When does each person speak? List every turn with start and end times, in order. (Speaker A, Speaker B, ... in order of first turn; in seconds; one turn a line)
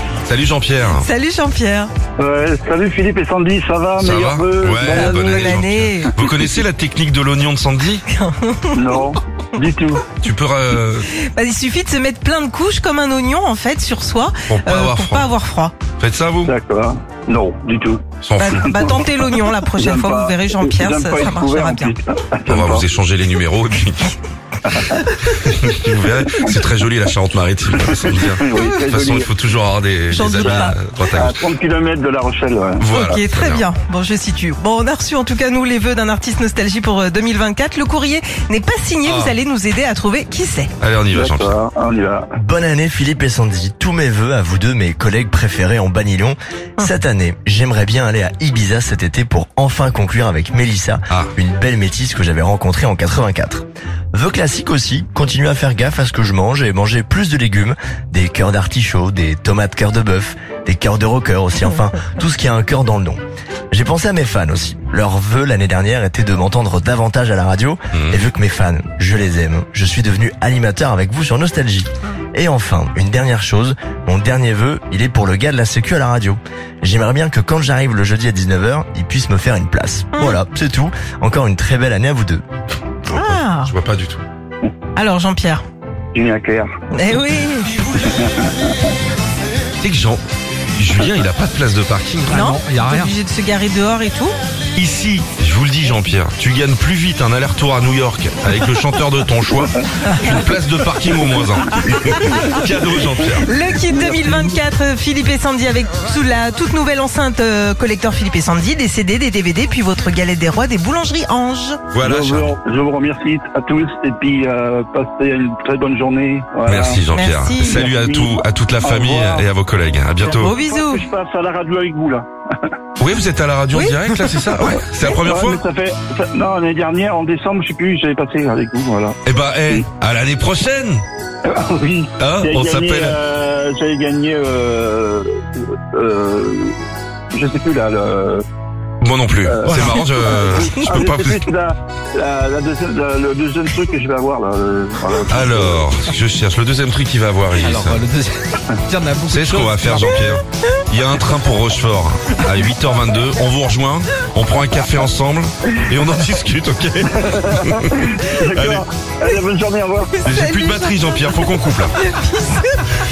Speaker A: 0.2-1.1
Speaker B: 0.9-1.9
Speaker C: 2.2-5.6
Speaker A: 4.0-8.0
Speaker B: 4.8-6.1
Speaker B: 8.1-8.8
Speaker C: 8.7-10.0
Speaker A: 10.2-11.1
Speaker B: 11.2-15.7
Speaker A: 14.4-15.3
Speaker A: 16.0-16.5
Speaker C: 16.4-18.0
Speaker A: 18.2-18.9
Speaker B: 18.4-21.9
Speaker C: 19.8-22.9
Speaker A: 22.5-24.1
Speaker C: 24.7-24.9
Speaker A: 25.3-31.4
Speaker C: 28.0-29.3
Speaker B: 28.5-28.8
Speaker B: 30.1-30.8
Speaker C: 30.4-32.9
Speaker A: 32.8-33.6
Speaker B: 32.9-40.7
Speaker A: 39.0-39.3
Speaker A: 40.8-41.5
Speaker C: 41.1-42.3
Speaker D: 42.3-63.2
Speaker D: 63.7-82.4
Speaker A: 67.9-68.2
Speaker B: 80.1-80.4
Speaker B: 83.1-83.7
Speaker A: 83.1-84.2
Speaker B: 85.0-85.6
Speaker C: 86.1-86.7
Speaker B: 86.9-87.7
Speaker C: 88.0-88.5
Speaker A: 89.8-90.2
Speaker A: 90.7-92.4
Speaker B: 92.3-94.3
Speaker E: 92.3-93.1
Speaker A: 94.7-103.5
Speaker B: 101.9-102.6
Speaker B: 103.4-111.8
Speaker A: 111.9-112.5
Speaker C: 112.0-117.0
Speaker A: 116.6-120.5
Speaker B: 117.1-117.8
Speaker C: 117.6-119.5
Speaker C: 120.2-122.7
Speaker B: 120.3-121.0
Speaker A: 123.0-125.6
Speaker B: 123.7-124.3
Speaker C: 124.6-129.2
Speaker A: 129.2-131.0
Speaker C: 131.4-136.8
Speaker A: 132.2-133.2
Speaker C: 137.3-138.4
Speaker A: 139.0-141.5
Speaker C: 139.4-145.9
Speaker A: 145.3-148.0
Speaker E: 147.6-150.2
Speaker A: 149.3-158.8
Speaker C: 157.2-160.1
Speaker B: 160.2-162.8
Speaker A: 160.2-162.0